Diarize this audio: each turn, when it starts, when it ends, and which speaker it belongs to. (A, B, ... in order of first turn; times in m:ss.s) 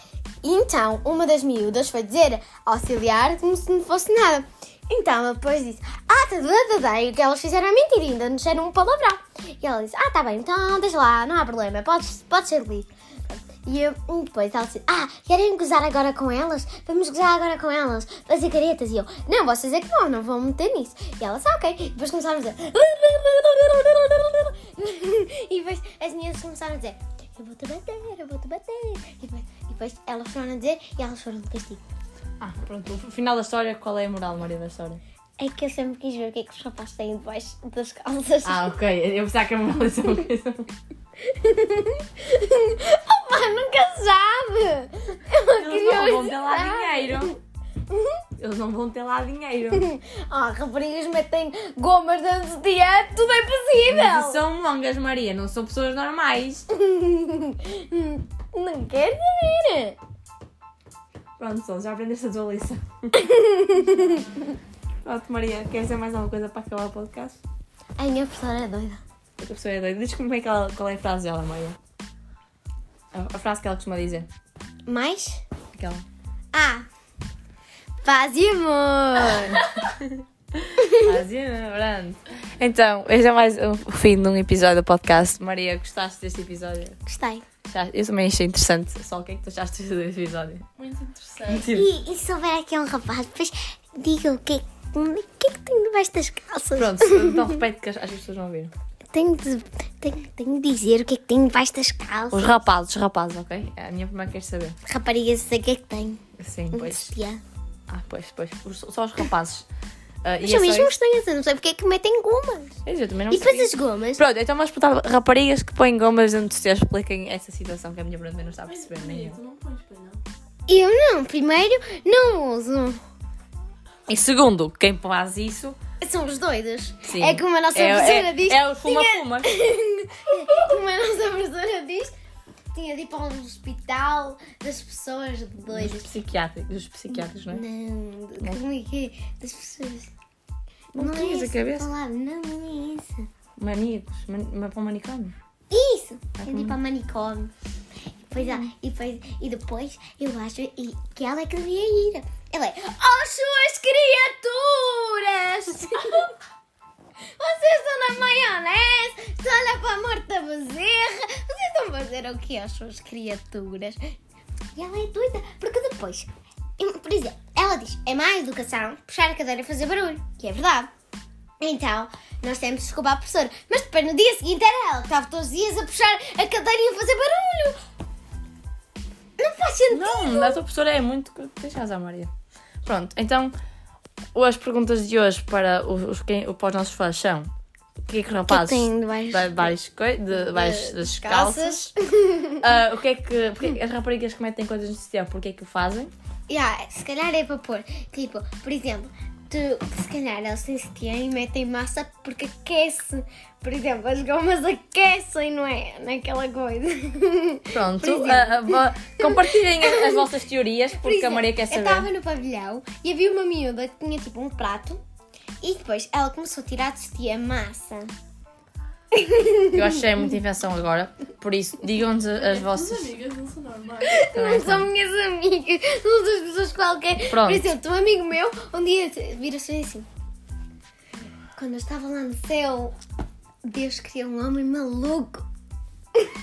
0:00.4-0:31.8 A
0:32.4-0:35.0 B
0:35.4-0:38.7 A
0:38.4-0:40.7 B
0:41.2-0:47.4 A
0:45.5-0:47.4 B
0:48.4-0:49.9 B
0:49.7-0:54.4 A
0:53.9-0:56.6 B
0:56.7-1:00.0 A
1:01.4-1:03.1 B
1:03.1-1:04.4 A
1:05.0-1:07.4 B
1:08.0-1:09.0 A
1:09.4-1:11.8 B
1:13.1-1:14.3 B
1:14.9-1:15.4 A
1:15.8-1:16.0 B
1:16.5-1:16.9 A
1:18.0-1:19.6 A
1:19.5-1:27.0 B
1:20.8-1:21.1 A
1:27.1-1:27.4 A
1:27.6-1:30.7 B
1:30.8-1:31.7 C
1:31.5-1:31.9 B
1:31.7-1:37.5 A
1:36.8-1:38.7 B
1:39.1-1:42.6 A
1:42.3-1:44.8 B
1:44.9-1:46.2 A
1:46.4-1:47.1 B
1:46.7-1:47.4 A
1:47.9-1:49.6 B
1:50.2-1:50.9 B
1:50.4-1:54.2 A
1:52.8-1:59.4 B
1:58.7-2:00.2 C
2:00.7-2:03.0 A
2:04.1-2:05.8 B
2:06.0-2:12.1 A
2:07.1-2:09.7 B
2:12.7-2:16.1 A
2:15.7-2:17.6 B
2:17.1-2:20.1 A
2:20.9-2:21.9 B
2:21.0-2:23.3 A
2:23.6-2:25.4 B
2:25.7-2:27.5 A
2:26.4-2:26.8 B
2:28.3-2:36.3 A
2:37.4-2:44.1 A
2:44.8-2:50.9 A
2:51.6-2:57.8 A
2:59.4-3:00.6 A
2:59.9-3:02.3 B
3:02.8-3:03.5 B
3:04.3-3:07.5 B
3:08.1-3:11.9 B
3:08.5-3:09.7 A
3:10.4-3:12.6 A
3:12.6-3:16.1 B
3:16.5-3:30.2 A
3:27.7-3:32.1 B
3:31.0-3:35.0 A
3:35.6-3:38.1 A
3:39.1-3:39.9 A
3:39.7-3:43.2 B
3:42.5-3:44.2 C
3:44.0-3:50.1 A
3:44.3-3:44.9 B
3:47.3-3:47.7 B
3:51.6-3:53.0 A
3:53.6-3:55.5 A